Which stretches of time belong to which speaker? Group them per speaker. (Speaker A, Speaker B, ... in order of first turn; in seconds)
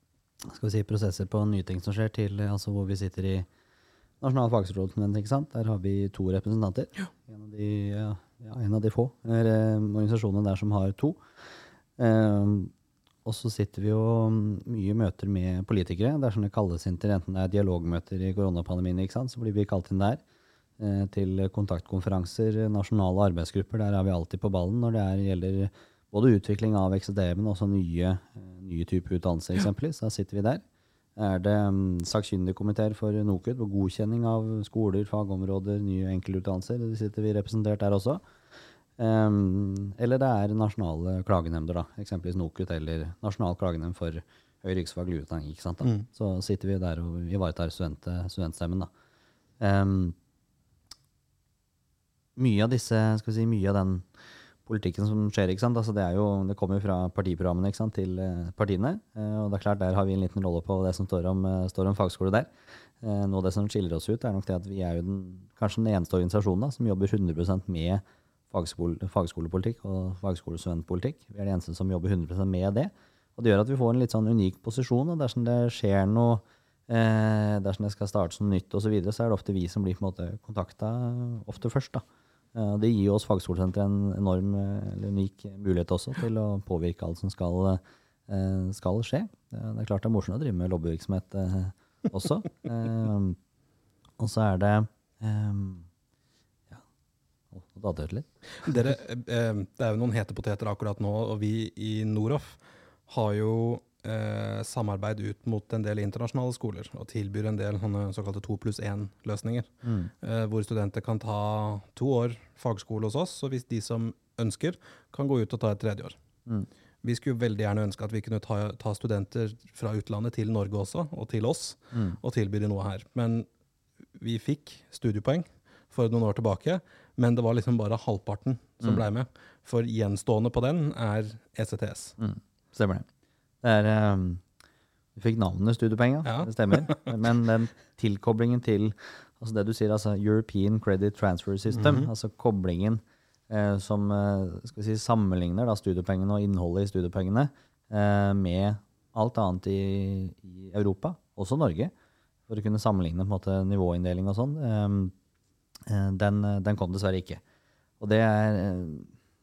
Speaker A: 0.5-3.5, 4.2-11.2, 12.0-12.7, 13.2-20.2, 20.8-30.6, 31.2-38.2, 39.0-48.9, 49.6-50.1, 52.4-54.1, 54.7-82.0, 82.5-93.4, 94.2-95.9, 97.5-98.3, 109.8-110.1, 132.2-133.1, 133.6-134.4, 135.2-151.9, 152.5-155.1, 155.9-157.4, 158.0-159.1
Speaker B: 98.6-109.7, 110.2-116.2, 117.0-123.5, 124.2-132.2, 136.3-137.0